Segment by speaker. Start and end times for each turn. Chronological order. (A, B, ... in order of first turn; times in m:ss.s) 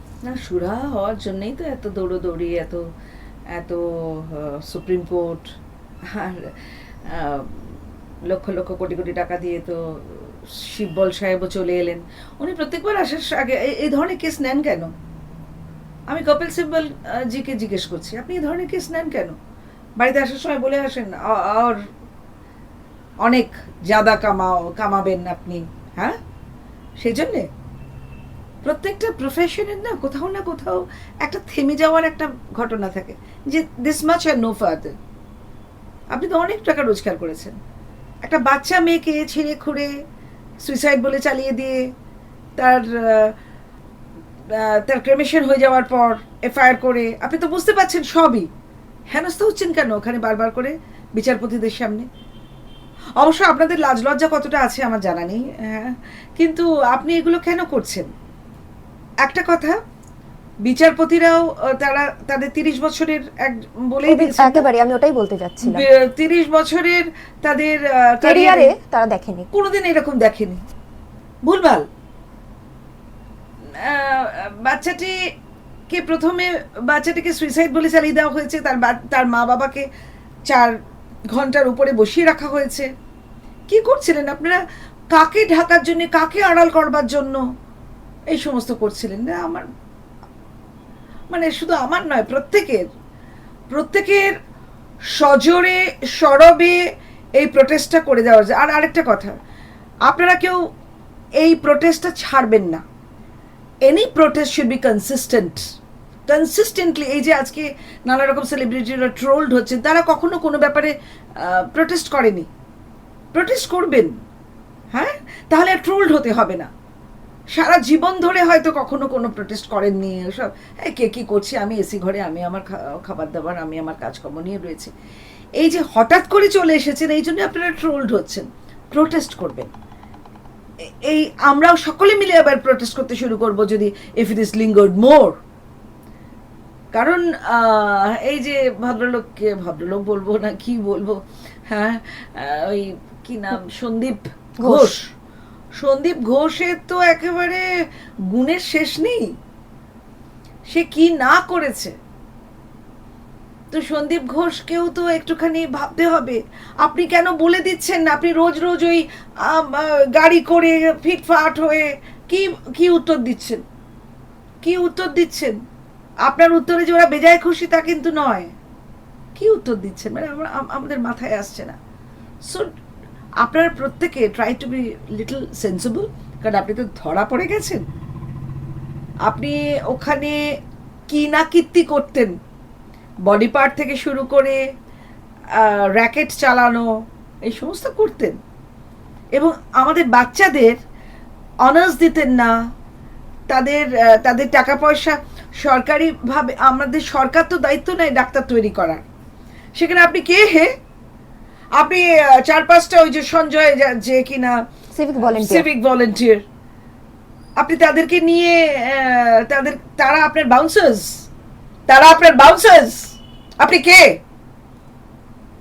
0:00.2-0:02.8 A
0:03.5-0:05.4 A
0:06.1-0:06.5 A
0:07.1-0:07.7 A
0:08.3-0:14.9 A
0:16.1-0:19.3 A
0:20.0-0:21.8 A
0:23.2-0:26.2 A
0:27.0-0:27.4 A
0:28.6-0:34.9 A
0:36.1-0:37.5 A
0:38.2-0:39.9 A
0:40.6-0:41.8 A
0:42.6-0:43.3 A
0:44.5-0:48.5 A
0:49.1-0:52.0 A
0:53.2-0:58.1 A
0:59.2-0:59.8 A
1:00.6-1:04.6 A
1:04.1-1:05.8 B
1:05.6-1:08.7 A
1:08.2-1:09.5 B
1:09.5-1:10.6 A
1:11.4-1:11.8 A
1:13.8-1:15.2 A
1:15.9-1:19.8 A
1:20.5-1:20.7 A
1:21.3-1:22.9 A
1:23.7-1:24.6 A
1:25.1-1:27.4 A
1:28.3-1:29.6 A
1:31.3-1:32.8 A
1:33.7-1:34.3 A
1:35.2-1:36.8 A
1:37.4-1:39.3 A
1:40.0-1:40.6 A
1:41.4-1:42.8 A
1:43.8-1:45.6 A
1:46.3-1:52.5 A
1:53.3-1:54.1 A
1:54.9-1:56.7 A
1:57.5-2:04.9 A
2:05.6-2:09.7 A
2:11.1-2:15.3 A
2:16.9-2:21.2 A
2:21.7-2:25.0 A
2:24.6-2:24.9 B
2:25.8-2:27.6 A
2:28.3-2:29.3 A
2:30.7-2:31.9 A
2:33.7-2:43.6 A
2:44.6-2:45.6 A
2:46.2-2:48.5 A
2:49.4-2:51.8 A
2:53.4-2:57.8 A
2:59.2-3:00.4 A
3:01.1-3:02.3 A
3:03.2-3:04.6 A
3:05.5-3:06.9 A
3:07.4-3:08.4 A
3:09.4-3:10.8 A
3:11.6-3:12.5 A
3:13.5-3:19.0 A
3:19.8-3:20.7 A
3:21.8-3:24.6 A
3:24.9-3:25.7 B
3:25.2-3:26.4 A
3:27.6-3:31.1 A
3:31.9-3:34.1 A